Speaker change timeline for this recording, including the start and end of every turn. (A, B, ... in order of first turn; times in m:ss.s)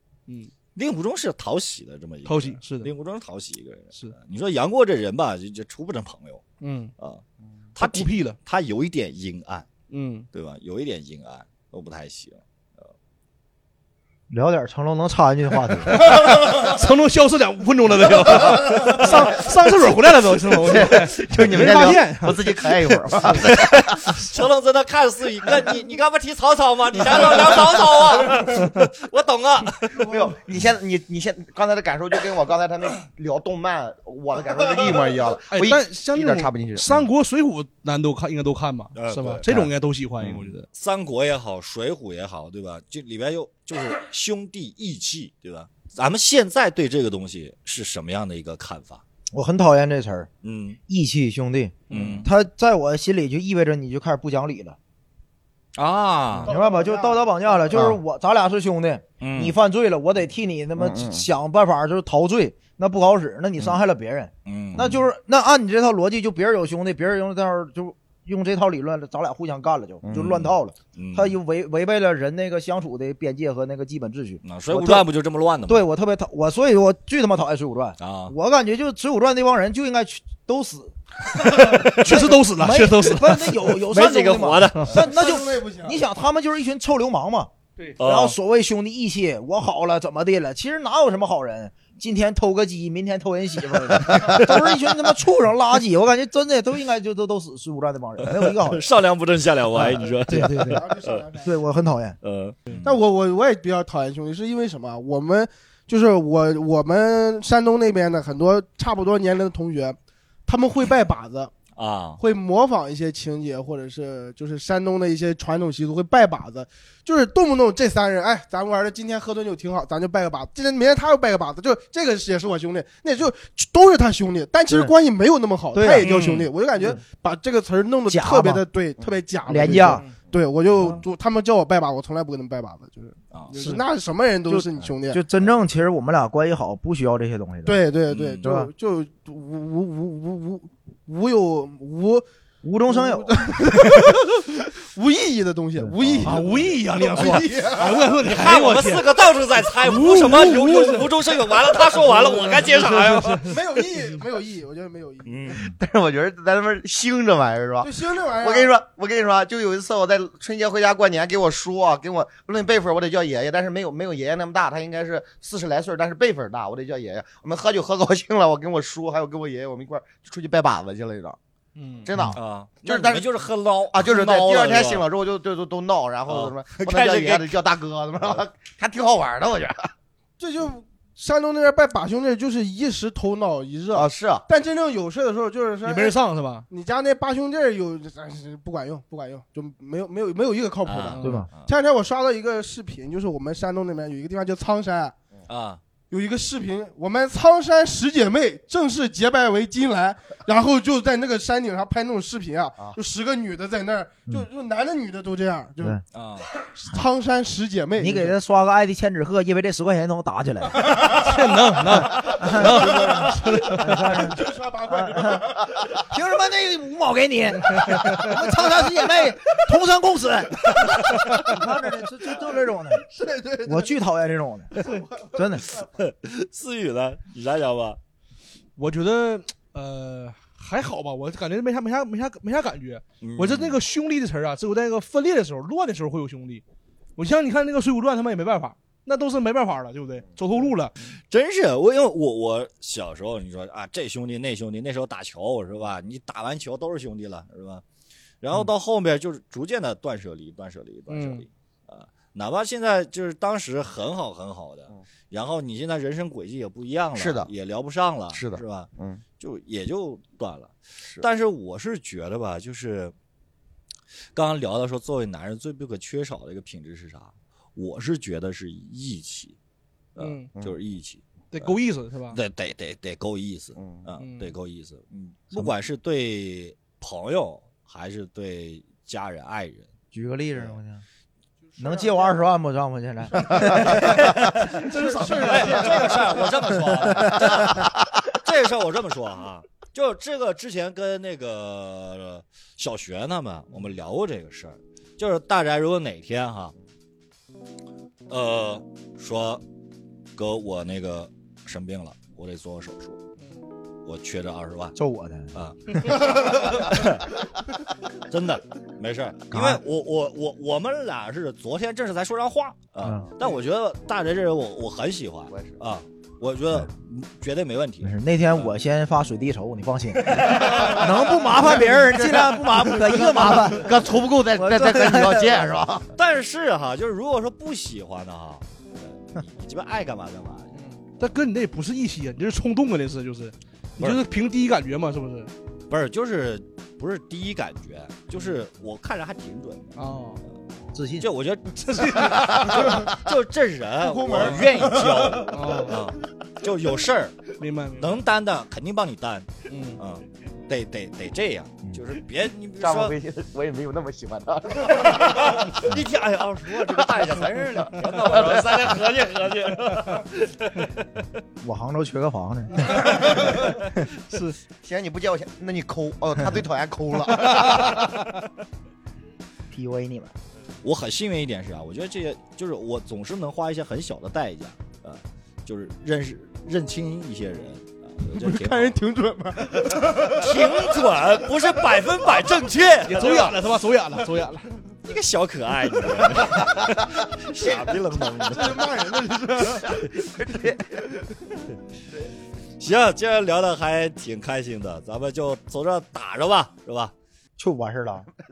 0:00.7-0:06.4 A
0:02.2-0:02.9 B
0:06.6-0:06.9 B
0:07.7-0:09.7 A
0:07.8-0:08.4 B
0:09.9-0:10.3 B
0:10.3-0:12.9 A
0:14.3-0:16.0 C
0:15.9-0:23.4 B
0:18.3-0:19.1 A
0:20.5-0:23.9 D
0:23.3-0:30.1 A
0:28.5-0:28.8 B
0:29.9-0:37.0 D
0:35.5-0:40.6 B
0:38.9-0:39.4 A
0:40.2-0:49.0 A
0:49.3-0:50.3 C
0:50.4-0:50.8 A
0:50.9-0:54.8 C
0:51.9-0:52.2 B
0:51.9-0:52.3 A
0:55.7-0:56.5 A
0:56.4-0:57.2 E
0:56.4-1:15.1 C
0:57.7-0:58.0 D
0:59.2-0:59.5 A
1:00.8-1:01.2 D
1:04.4-1:05.0 A
1:10.0-1:10.4 D
1:10.1-1:11.4 A
1:14.4-1:15.9 A
1:15.7-1:38.9 C
1:18.0-1:18.3 A
1:21.6-1:22.2 A
1:21.6-1:23.7 B
1:23.9-1:25.0 A
1:24.9-1:26.0 E
1:28.0-1:28.4 A
1:38.2-1:41.2 A
1:39.8-1:40.8 C
1:40.3-1:40.7 B
1:40.6-1:41.5 E
1:41.4-1:42.2 C
1:42.2-1:43.0 A
1:42.8-1:51.5 E
1:51.8-1:52.2 A
1:52.2-2:15.2 E
2:05.7-2:06.0 C
2:06.0-2:06.5 B
2:06.0-2:06.5 A
2:08.1-2:08.6 C
2:09.4-2:10.0 C
2:14.5-2:17.8 C
2:17.6-2:22.2 E
2:18.1-2:18.4 A
2:18.4-2:18.7 C
2:22.6-2:23.3 C
2:22.9-2:28.0 E
2:26.0-2:26.3 D
2:26.0-2:26.4 A
2:26.2-2:29.1 B
2:28.2-2:33.6 A
2:29.8-2:31.1 B
2:32.1-2:33.6 B
2:33.5-2:35.6 E
2:35.2-2:35.7 A
2:35.5-2:51.4 D
2:37.8-2:38.7 E
2:51.8-2:52.1 B
2:52.0-2:53.2 D
2:52.3-2:55.1 A
2:53.9-2:59.9 D
2:56.2-2:57.6 A
3:00.4-3:06.2 E
3:03.9-3:04.4 D
3:05.8-3:06.7 B
3:06.7-3:15.1 E
3:10.8-3:11.7 A
3:11.1-3:11.5 B
3:11.2-3:11.5 C
3:15.5-3:15.8 A
3:16.1-3:26.0 E
3:26.1-3:26.5 A
3:26.6-3:28.3 E
3:28.0-3:31.0 C
3:30.8-3:31.2 E
3:31.1-3:33.9 B
3:32.2-3:43.0 C
3:32.8-3:35.9 E
3:37.9-3:38.2 B
3:43.0-3:43.8 E
3:43.6-3:44.8 C
3:44.8-3:45.3 E
3:45.3-3:45.7 C
3:45.6-3:48.0 A
3:48.8-3:56.6 B
3:53.2-3:53.8 A
3:57.2-4:01.0 B
4:01.0-4:07.8 A
4:08.4-4:23.1 A
4:11.1-4:11.4 B
4:17.2-4:17.5 D
4:18.3-4:19.2 D
4:24.3-4:29.5 A
4:30.1-4:31.7 A
4:30.2-4:30.5 B
4:31.5-4:32.4 B
4:32.3-4:39.9 A
4:33.8-4:34.0 D
4:34.2-4:34.5 B
4:40.1-4:41.0 C
4:41.7-4:42.2 E
4:41.8-4:44.3 C
4:43.6-4:44.1 D
4:44.2-4:44.7 A
4:44.8-4:45.9 B
4:44.8-4:46.4 E
4:45.3-4:56.7 A
4:45.6-4:46.4 D
4:47.2-4:47.9 D
4:58.3-4:59.6 A
5:00.3-5:03.2 A
5:04.0-5:05.0 A
5:05.0-5:06.2 C
5:05.5-5:07.3 A
5:08.2-5:18.7 A
5:09.5-5:09.8 C
5:13.0-5:13.3 D
5:15.5-5:15.8 D
5:18.0-5:23.9 C
5:20.3-5:21.2 A
5:21.9-5:26.1 D
5:24.5-5:25.7 C
5:26.1-5:30.8 A
5:30.7-5:35.5 B
5:35.9-5:40.0 A
5:40.0-5:40.4 B
5:40.9-5:41.3 C
5:41.2-5:49.5 A
5:41.8-5:42.7 B
5:44.0-5:44.8 E
5:45.4-5:45.9 B
5:47.6-5:48.2 B
5:49.7-5:50.0 B
5:50.0-5:53.1 A
5:52.8-5:55.9 D
5:54.8-6:01.2 A
5:56.7-5:58.9 D
6:01.6-6:03.3 C
6:04.3-6:04.6 B
6:04.8-6:08.2 D
6:09.7-6:10.3 C
6:10.8-6:19.0 A
6:18.3-6:20.4 E
6:19.9-6:23.6 A
6:23.0-6:24.8 B
6:25.0-6:28.9 A
6:26.6-6:27.0 D
6:27.6-6:28.2 D
6:28.4-6:30.0 E
6:29.9-6:31.2 D
6:32.8-6:37.1 A
6:37.6-6:38.3 C